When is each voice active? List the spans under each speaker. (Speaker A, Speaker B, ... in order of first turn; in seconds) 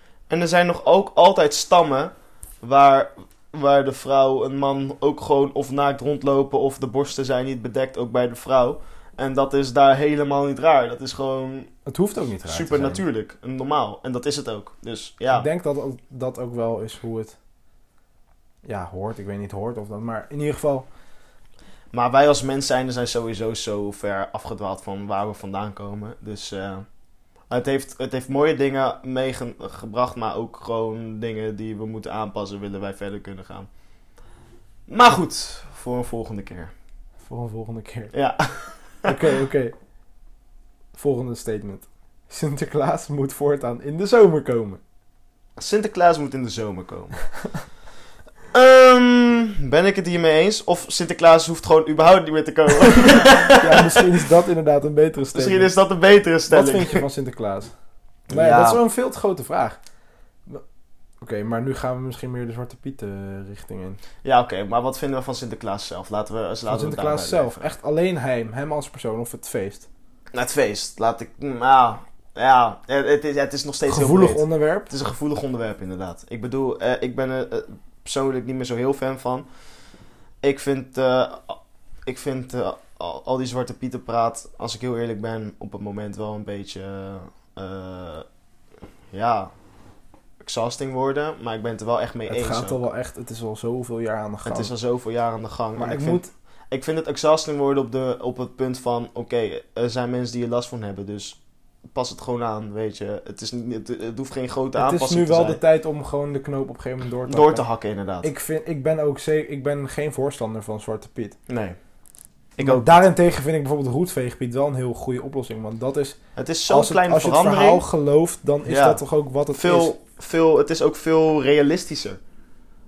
Speaker A: 0.3-11.7, 12.5-15.5, 21.9-26.9, 27.5-33.7, 34.9-36.7, 38.1-39.1, 45.6-47.2, 48.5-54.0, 55.3-57.0, 58.3-58.8, 64.2-67.7, 70.3-79.5, 80.4-88.2, 89.1-89.5, 90.4-92.8, 94.5-101.4, 101.9-105.6, 107.3-108.3, 111.5-111.8, 112.6-113.0, 116.4-117.8, 118.7-122.2
Speaker B: 11.9-13.0, 15.3-17.4, 18.6-20.9, 37.3-38.1, 39.0-39.7, 40.9-44.8, 53.5-55.7, 56.5-57.7, 58.3-59.8, 61.2-64.0, 66.7-69.9, 73.9-74.9, 92.3-94.7, 95.8-96.3, 104.8-107.7, 108.2-111.4, 112.6-119.9